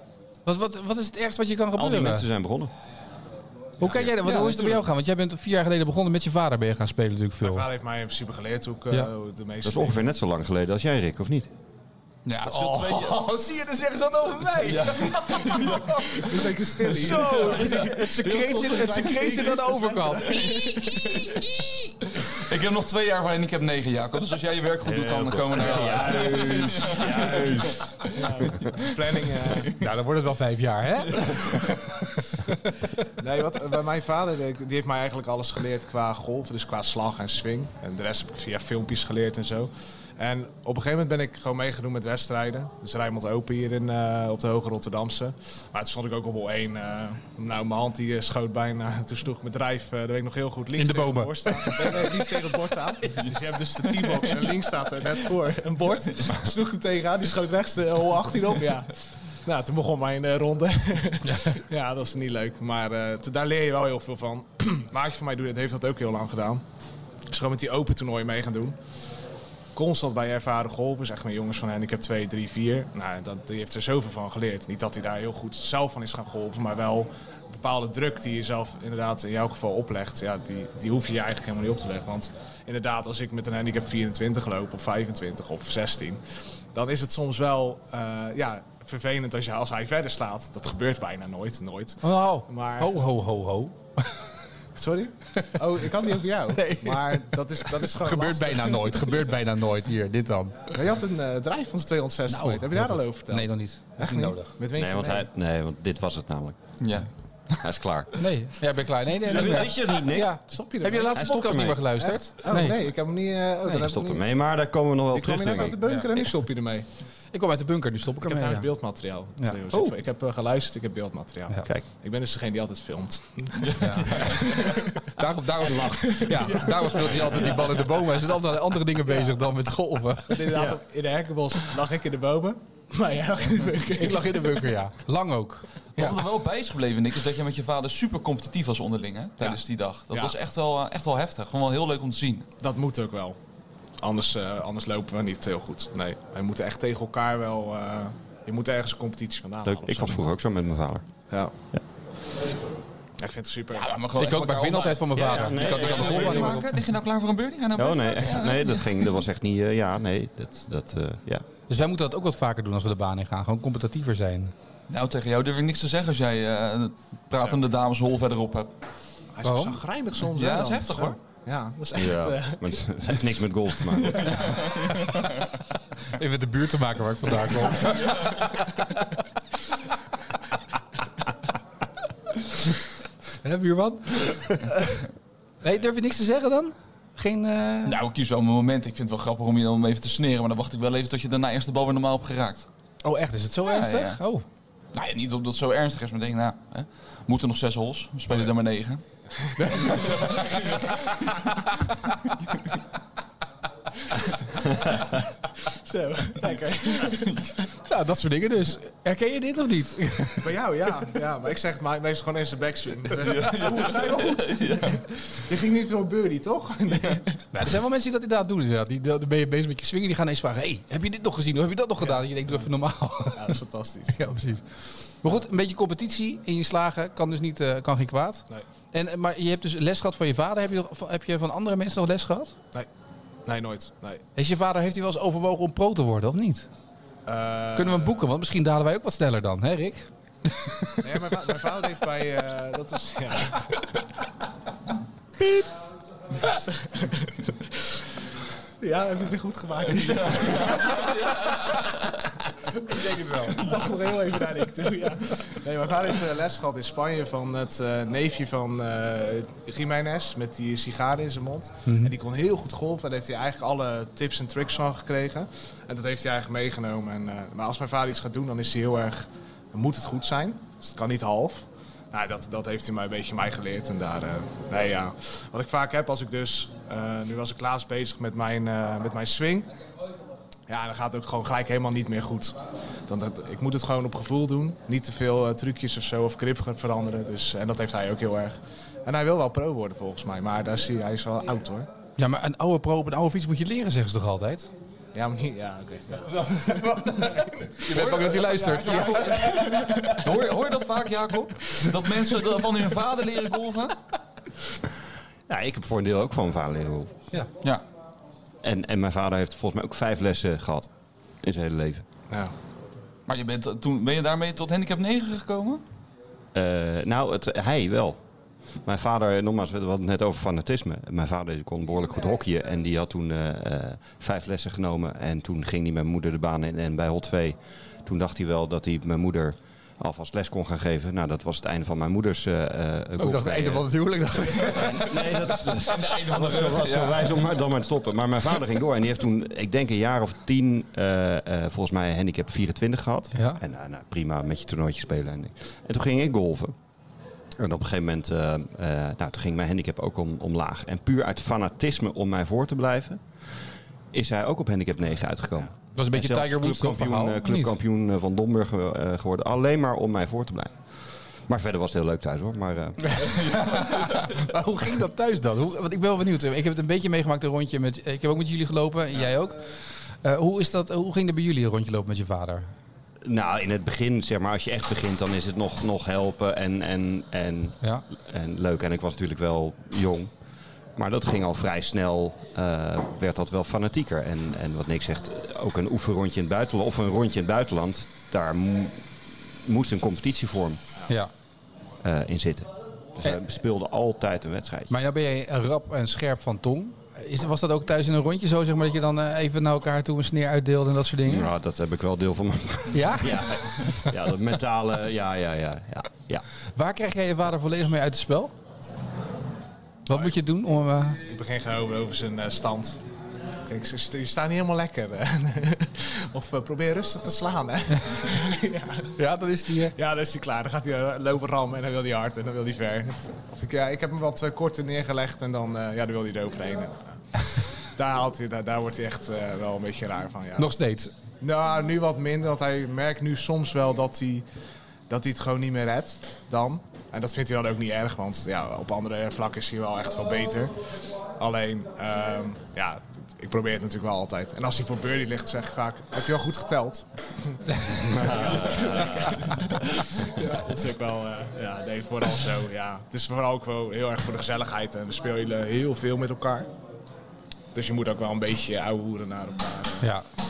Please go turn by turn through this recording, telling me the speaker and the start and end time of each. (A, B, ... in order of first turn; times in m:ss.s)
0:00.4-0:02.3 A
0:01.7-0:02.7 B
0:03.8-0:07.7 A
0:03.8-0:04.1 B
0:04.2-0:04.7 C
0:07.4-0:10.0 C
0:09.6-0:11.5 B
0:12.2-0:13.3 D
0:12.4-0:21.9 A
0:14.5-0:16.2 D
0:16.1-0:21.3 C
0:17.1-0:17.8 D
0:20.6-0:21.0 D
0:22.2-0:27.8 D
0:24.8-0:28.7 B
0:25.7-0:27.3 C
0:28.1-0:29.8 C
0:29.7-0:31.7 A
0:32.3-0:32.8 A
0:33.2-1:06.6 C
0:50.8-0:52.1 A
1:07.3-1:08.8 C
1:09.7-1:26.2 C
1:26.7-1:33.0 C
1:32.0-1:34.1 A
1:34.7-1:39.3 C
1:36.5-1:40.5 A
1:40.7-1:45.2 C
1:42.3-1:44.5 A
1:44.7-1:46.6 B
1:46.8-1:47.6 D
1:47.6-1:48.1 B
1:48.2-1:52.8 A
1:49.2-1:50.4 B
1:50.5-1:51.2 C
1:51.1-1:51.9 B
1:52.0-1:54.2 C
1:53.7-1:55.8 B
1:55.1-1:56.9 C
1:57.3-1:58.7 A
1:58.2-2:05.0 C
1:59.4-1:59.9 A
2:03.6-2:04.4 D
2:03.8-2:04.4 A
2:05.1-2:10.4 A
2:05.6-2:07.3 B
2:05.7-2:08.0 C
2:10.3-2:14.7 C
2:10.5-2:10.8 B
2:13.9-2:16.2 A
2:16.0-2:22.4 D
2:19.4-2:20.3 C
2:22.6-2:23.4 C
2:24.0-2:30.3 C
2:29.6-2:31.0 B
2:33.2-2:33.9 C
2:33.7-2:39.1 D
2:34.2-2:36.7 A
2:35.1-2:36.6 B
2:37.8-2:41.4 B
2:41.7-2:44.5 A
2:44.9-2:48.7 D
2:49.3-2:53.2 C
2:49.4-2:49.8 A
2:50.3-2:51.2 D
2:51.9-2:54.5 B
2:54.0-2:55.1 C
2:54.2-2:54.7 D
2:56.1-2:58.2 A
3:03.4-3:05.0 A
3:05.6-3:08.0 A
3:07.8-3:12.7 D
3:13.0-3:14.4 A
3:13.7-3:14.2 D
3:14.9-3:19.0 D
3:19.6-3:20.6 C
3:19.6-3:20.3 A
3:19.8-3:21.5 D
3:25.6-3:27.5 C
3:27.0-3:27.6 D
3:27.9-3:30.5 A
3:30.4-3:37.4 C
3:33.2-3:35.0 D
3:37.5-3:43.6 A
3:43.3-3:44.4 C
3:44.1-3:44.6 A
3:45.2-3:52.5 A
3:53.4-3:54.2 C
3:54.4-3:56.7 A
3:57.2-3:58.2 C
3:57.7-4:01.0 A
4:01.0-4:03.8 C
4:06.4-4:08.0 C
4:08.8-4:12.0 C
4:10.1-4:11.5 D
4:12.6-4:39.7 C
4:21.8-4:22.1 A
4:40.7-4:51.9 C
4:52.2-4:54.7 A
4:55.1-5:00.2 C
4:56.8-4:59.8 A
4:57.9-5:03.9 D
5:05.5-5:07.1 B
5:08.6-5:10.9 B
5:11.4-5:12.0 B
5:13.3-5:15.8 D
5:16.5-5:18.2 B
5:18.8-5:33.9 B
5:33.2-5:35.4 A
5:34.4-5:46.7 B
5:35.8-5:37.5 D
5:43.3-5:43.6 A
5:47.6-5:53.2 B
5:54.1-6:00.7 B
5:56.0-5:57.7 A
6:01.5-6:03.6 B
6:03.2-6:12.7 A
6:03.9-6:04.2 D
6:13.2-6:20.3 B
6:21.0-6:30.8 B
6:32.0-6:34.9 B
6:34.9-6:41.5 A
6:41.2-6:46.4 B
6:42.9-6:44.0 A
6:46.8-6:48.5 A
6:50.1-6:51.2 A
6:51.2-6:53.0 C
6:53.6-6:59.1 C
6:59.2-6:59.9 A
6:59.8-7:10.7 C
7:10.6-7:11.1 A
7:11.4-7:14.4 C
7:15.1-7:20.7 C
7:21.4-7:36.7 C
7:28.0-7:29.5 B
7:28.4-7:29.8 D
7:37.7-7:40.1 C